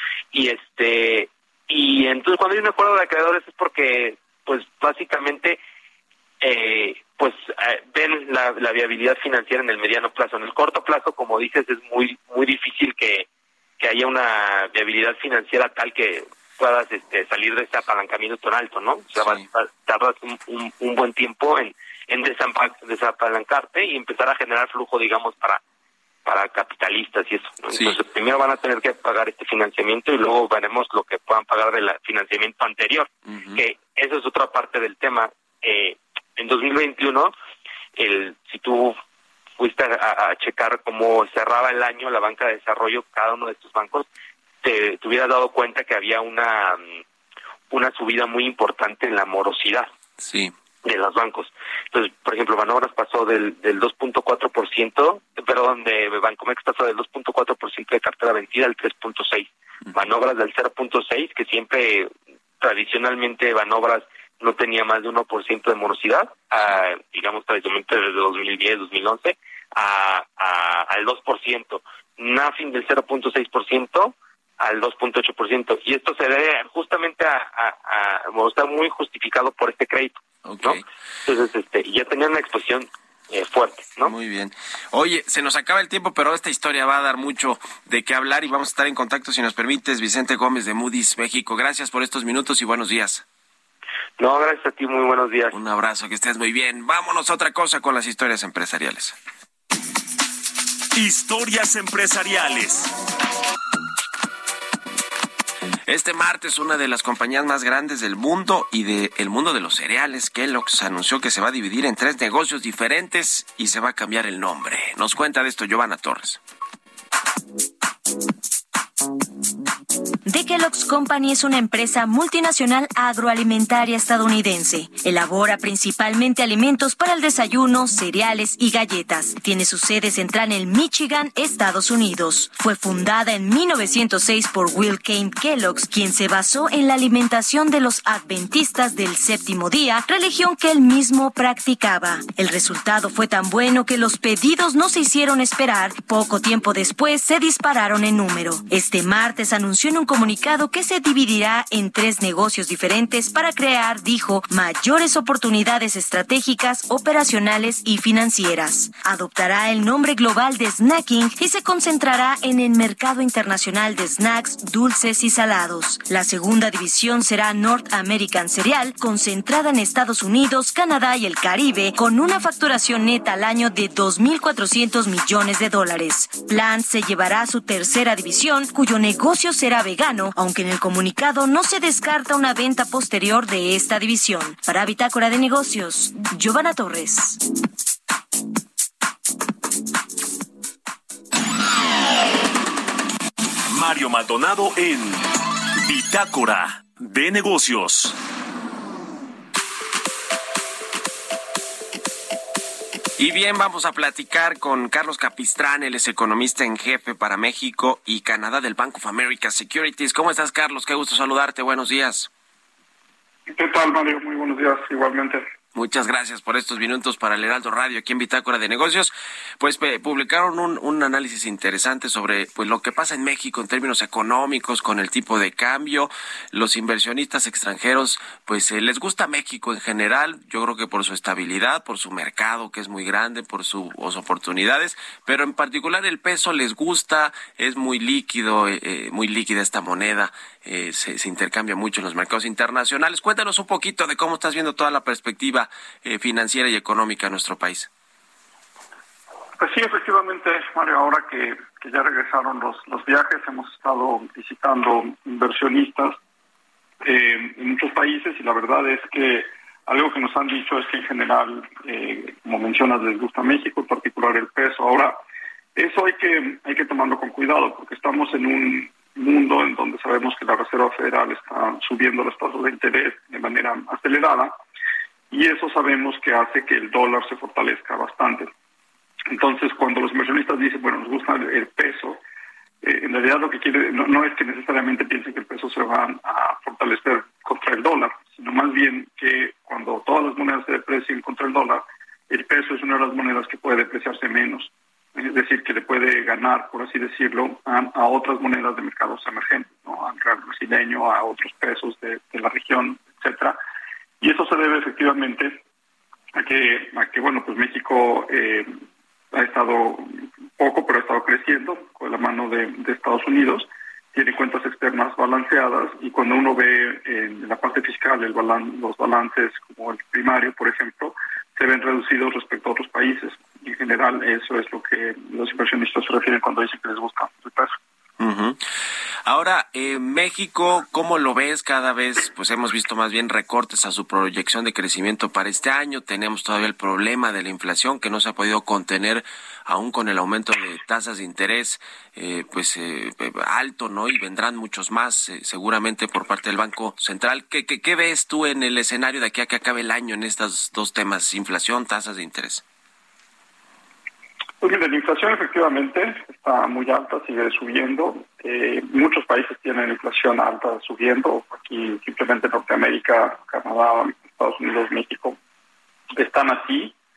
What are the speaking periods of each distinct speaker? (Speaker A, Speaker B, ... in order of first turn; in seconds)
Speaker A: 0.3-5.6, 6.4-13.3, 13.8-25.6, 26.2-37.3, 38.0-39.0, 39.6-44.1, 44.6-47.0, 47.7-49.9, 50.8-62.1, 62.6-84.1, 94.2-95.5
Speaker B: 19.2-19.5, 27.7-28.0, 33.3-33.6, 50.2-50.5, 80.4-80.8, 84.0-93.2, 95.5-99.2, 105.9-116.4, 203.2-212.3, 215.7-247.9, 328.2-328.6, 329.2-352.6
Speaker C: 100.9-102.9, 193.7-195.3, 195.8-198.2
Speaker D: 120.2-187.4
Speaker E: 213.5-215.5, 249.6-256.2, 257.0-265.2, 265.8-274.5, 275.3-278.5, 279.3-282.2, 282.8-303.6, 304.2-305.6, 306.3-308.7, 309.3-327.8, 354.6-365.4, 366.2-366.9